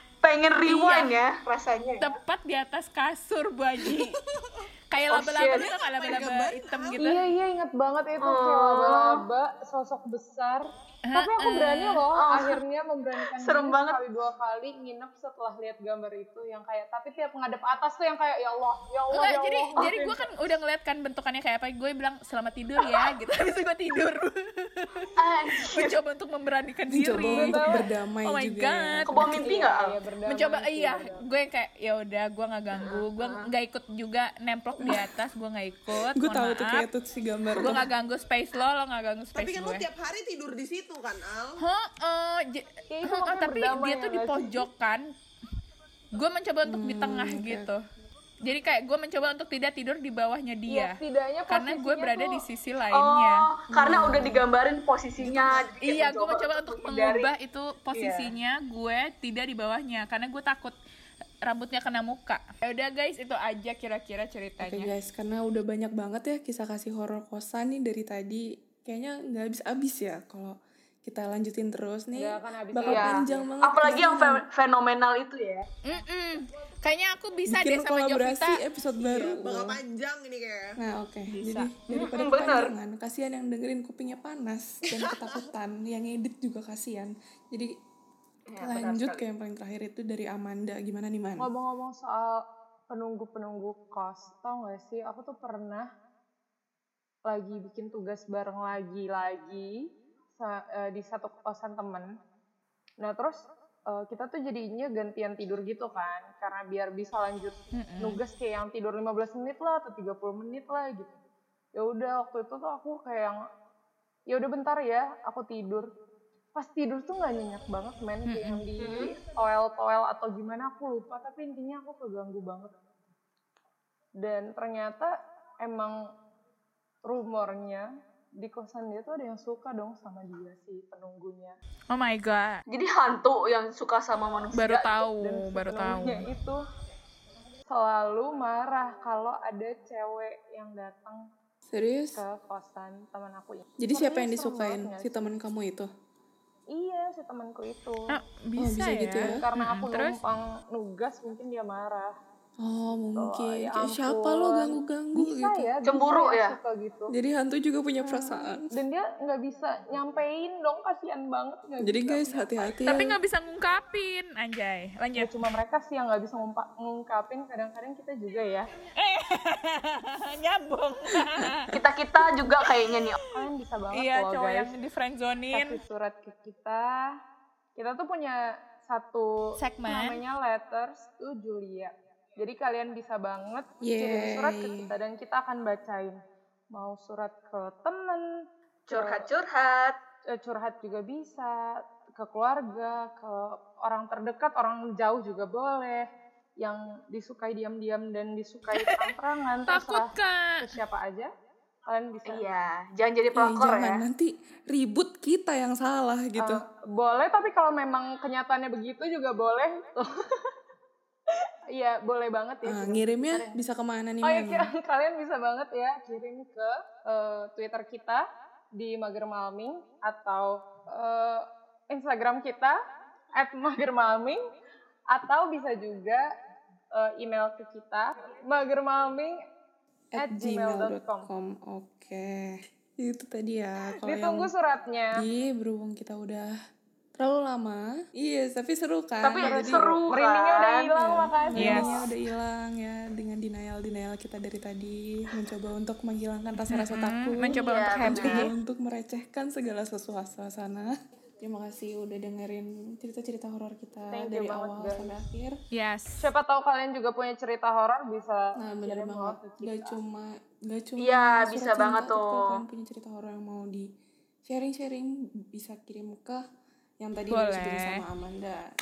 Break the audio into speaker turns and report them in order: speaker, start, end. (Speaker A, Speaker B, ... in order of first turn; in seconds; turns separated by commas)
Speaker A: 0.2-2.2, Speaker B: 0.6-1.2, Speaker B: 2.0-4.2, Speaker C: 4.0-4.6, Speaker B: 4.9-7.2, Speaker A: 5.1-5.7, Speaker C: 5.6-7.0, Speaker D: 7.0-20.2, Speaker A: 8.2-9.2, Speaker B: 11.1-12.1, Speaker A: 12.1-12.6, Speaker A: 13.2-14.0, Speaker B: 19.1-29.5, Speaker A: 25.2-26.0, Speaker E: 26.9-29.3, Speaker D: 27.3-27.8, Speaker A: 29.0-30.0, Speaker D: 29.4-31.2, Speaker B: 30.3-36.9, Speaker A: 32.7-33.5, Speaker E: 34.8-35.1, Speaker E: 35.9-37.9, Speaker B: 37.6-39.9, Speaker C: 39.4-41.6, Speaker B: 41.6-45.1, Speaker D: 42.9-44.6, Speaker B: 46.1-47.8, Speaker E: 46.6-47.7, Speaker B: 48.4-51.0, Speaker D: 50.7-52.4, Speaker B: 51.5-53.5, Speaker A: 52.9-57.3, Speaker E: 53.7-54.5, Speaker E: 55.3-55.5, Speaker B: 55.8-60.7, Speaker A: 57.9-58.3, Speaker B: 61.5-64.9, Speaker E: 64.6-74.4, Speaker D: 72.1-73.5, Speaker A: 72.8-75.7, Speaker B: 75.8-78.6, Speaker E: 77.5-79.8, Speaker C: 79.0-80.8, Speaker E: 80.8-87.7, Speaker B: 81.3-81.7, Speaker A: 81.9-82.7, Speaker C: 85.0-85.4, Speaker A: 88.5-89.3, Speaker E: 88.6-91.5, Speaker D: 91.4-95.9, Speaker D: 97.3-99.8, Speaker D: 100.3-102.1, Speaker D: 103.0-111.2, Speaker B: 107.7-108.2, Speaker D: 111.8-113.4, Speaker D: 114.3-115.9, Speaker D: 116.5-122.7, Speaker B: 118.3-118.6, Speaker A: 118.8-119.1, Speaker D: 124.2-126.0, Speaker D: 127.1-127.9, Speaker D: 128.4-131.6, Speaker B: 131.9-132.6, Speaker A: 132.7-134.9, Speaker B: 134.5-136.3, Speaker D: 135.2-136.6, Speaker D: 137.7-141.2, Speaker E: 141.7-142.2, Speaker D: 142.2-145.4, Speaker E: 143.8-145.9, Speaker D: 146.7-148.1, Speaker B: 148.1-150.2, Speaker E: 148.6-149.4, Speaker D: 149.3-152.1, Speaker E: 152.6-155.7, Speaker D: 153.2-157.1, Speaker A: 155.8-156.6, Speaker E: 157.1-158.7, Speaker D: 158.0-162.8, Speaker E: 161.8-163.2, Speaker B: 162.9-165.3, Speaker D: 165.2-168.7, Speaker B: 169.0-171.7, Speaker A: 171.7-173.2, Speaker B: 172.6-173.1, Speaker D: 173.3-174.7, Speaker B: 173.9-175.8, Speaker D: 175.5-177.1, Speaker D: 177.8-186.2, Speaker B: 179.6-180.2, Speaker E: 183.8-184.9, Speaker D: 186.7-188.2, Speaker A: 188.9-190.0, Speaker D: 188.9-189.3, Speaker D: 190.3-196.1, Speaker D: 196.6-201.3, Speaker B: 198.7-199.1, Speaker B: 199.7-200.6, Speaker D: 201.9-202.4, Speaker A: 202.3-204.0, Speaker E: 203.3-206.6, Speaker D: 206.4-210.5, Speaker D: 211.7-213.6, Speaker E: 212.6-214.7, Speaker D: 214.2-218.2, Speaker D: 218.8-222.8, Speaker D: 223.4-224.4, Speaker D: 225.1-226.2, Speaker D: 226.9-229.3, Speaker E: 230.2-234.5, Speaker D: 230.2-231.3, Speaker D: 234.1-235.2, Speaker E: 235.2-236.5, Speaker E: 237.2-240.0, Speaker A: 239.2-240.9, Speaker D: 239.4-242.1, Speaker E: 240.9-250.9, Speaker B: 241.6-241.9, Speaker B: 246.7-248.5, Speaker A: 247.6-248.5, Speaker E: 251.4-255.6, Speaker D: 254.1-255.1, Speaker B: 255.7-256.2, Speaker D: 256.2-259.9, Speaker E: 258.6-263.9, Speaker A: 261.0-262.6, Speaker E: 264.4-266.4, Speaker E: 267.0-268.6, Speaker B: 267.3-268.0